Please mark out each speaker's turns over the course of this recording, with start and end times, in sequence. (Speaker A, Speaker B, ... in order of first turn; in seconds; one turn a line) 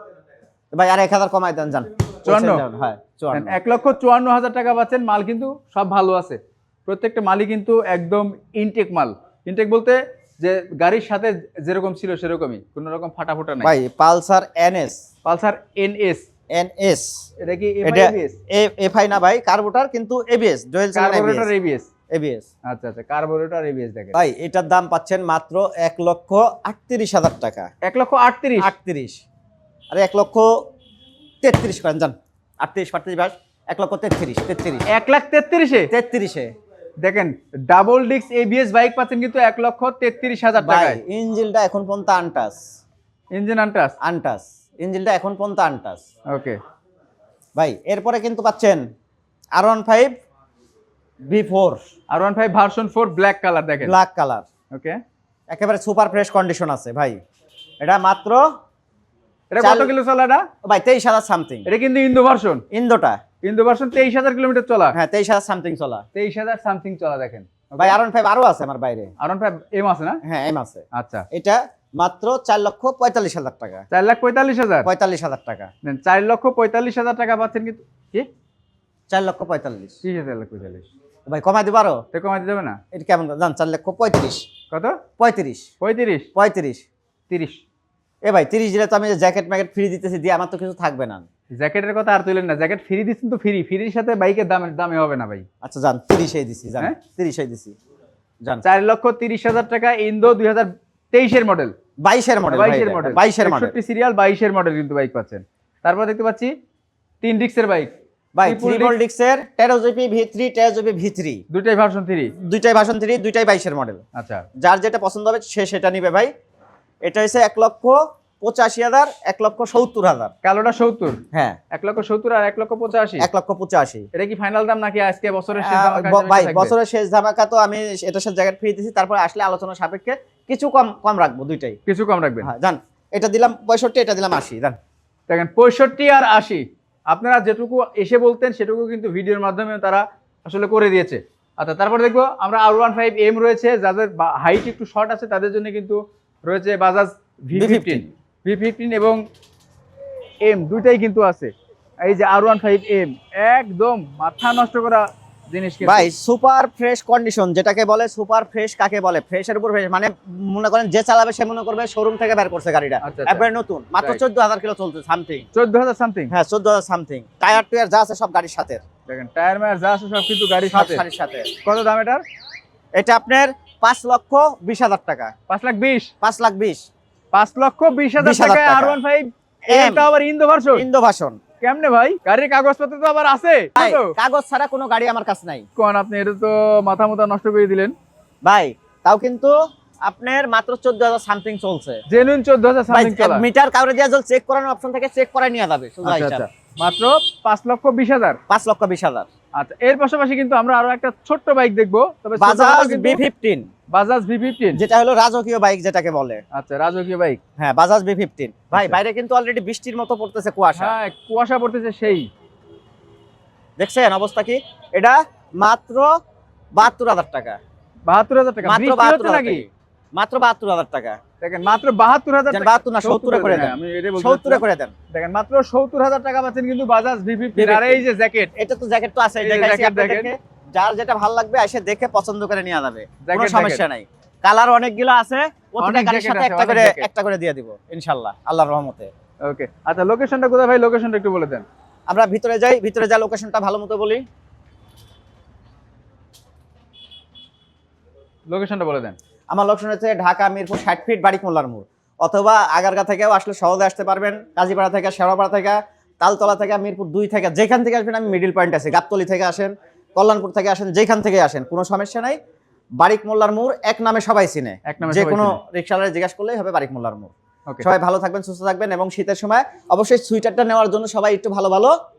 Speaker A: 0.7-3.6
Speaker B: 2.2-2.6
Speaker B: 3.3-13.7
Speaker A: 13.6-15.0
Speaker B: 15.2-16.2
Speaker A: 16.5-17.1
Speaker B: 17.4-18.4
Speaker A: 17.8-21.5
Speaker B: 20.9-21.9
Speaker A: 22.1-22.4
Speaker B: 22.7-24.1
Speaker A: 24.1-27.7
Speaker B: 27.8-28.7
Speaker A: 28.6-29.2
Speaker A: 29.9-30.5
Speaker A: 31.4-34.8
Speaker B: 34.9-35.9
Speaker A: 35.9-36.5
Speaker B: 37.0-41.0
Speaker A: 40.6-42.6
Speaker B: 43.3-43.9
Speaker A: 44.0-46.0
Speaker B: 46.3-46.6
Speaker A: 47.5-48.8
Speaker A: 49.5-50.1
Speaker A: 51.2-51.8
Speaker B: 52.1-53.9
Speaker A: 53.8-54.4
Speaker B: 54.7-55.0
Speaker A: 55.5-57.2
Speaker A: 57.8-58.4
Speaker B: 59.5-60.5
Speaker A: 59.6-59.9
Speaker A: 60.6-61.7
Speaker B: 61.6-62.6
Speaker A: 62.7-63.2
Speaker B: 63.4-64.9
Speaker A: 64.9-66.0
Speaker B: 66.1-68.0
Speaker A: 67.8-69.1
Speaker B: 69.2-70.2
Speaker A: 70.2-73.8
Speaker B: 70.9-71.2
Speaker B: 73.9-74.9
Speaker A: 74.8-75.7
Speaker B: 75.8-78.3
Speaker A: 79.1-80.0
Speaker B: 80.0-80.9
Speaker A: 81.2-82.0
Speaker B: 82.1-82.8
Speaker A: 82.9-84.5
Speaker B: 84.7-85.0
Speaker A: 85.2-85.7
Speaker B: 85.8-86.3
Speaker A: 86.3-86.8
Speaker B: 87.3-87.6
Speaker A: 88.2-91.2
Speaker B: 91.6-95.5
Speaker A: 95.6-97.7
Speaker B: 98.6-101.7
Speaker A: 102.0-103.7
Speaker B: 102.5-106.5
Speaker B: 107.2-107.9
Speaker A: 108.3-111.4
Speaker B: 108.4-109.0
Speaker B: 111.5-112.3
Speaker A: 112.4-114.0
Speaker B: 114.1-114.4
Speaker A: 114.6-116.3
Speaker A: 117.0-120.3
Speaker B: 120.4-121.2
Speaker A: 121.3-121.6
Speaker B: 121.7-123.3
Speaker A: 123.2-124.0
Speaker B: 124.1-126.7
Speaker A: 125.6-131.8
Speaker B: 131.9-132.5
Speaker A: 132.4-134.8
Speaker B: 135.3-149.2
Speaker A: 147.5-148.1
Speaker B: 150.4-151.5
Speaker B: 152.0-156.1
Speaker A: 155.8-165.5
Speaker B: 163.0-163.4
Speaker B: 165.5-166.3
Speaker A: 166.3-168.8
Speaker B: 169.1-171.0
Speaker A: 170.7-171.5
Speaker B: 171.6-172.2
Speaker A: 172.9-175.3
Speaker B: 175.5-176.1
Speaker A: 176.2-176.9
Speaker B: 177.3-180.8
Speaker A: 178.2-179.0
Speaker A: 179.7-180.1
Speaker A: 180.7-181.4
Speaker B: 181.6-184.1
Speaker A: 183.8-185.6
Speaker B: 185.8-187.9
Speaker A: 188.4-189.5
Speaker A: 190.1-192.0
Speaker B: 192.1-193.4
Speaker A: 192.9-196.4
Speaker B: 196.0-198.4
Speaker A: 198.5-199.3
Speaker B: 199.6-203.2
Speaker A: 202.4-203.7
Speaker B: 203.9-204.8
Speaker A: 204.7-206.4
Speaker B: 206.5-207.4
Speaker A: 207.6-210.9
Speaker B: 208.7-209.0
Speaker B: 210.8-212.3
Speaker A: 213.8-216.1
Speaker A: 216.8-217.6
Speaker B: 218.1-219.6
Speaker A: 218.6-221.2
Speaker B: 221.4-228.5
Speaker A: 222.5-224.9
Speaker A: 227.6-228.0
Speaker A: 228.6-239.1
Speaker B: 229.4-230.3
Speaker B: 233.2-233.8
Speaker B: 235.8-237.1
Speaker B: 239.4-241.6
Speaker A: 242.1-244.2
Speaker B: 248.5-249.2
Speaker A: 249.5-262.4
Speaker A: 263.0-271.9
Speaker B: 264.9-265.6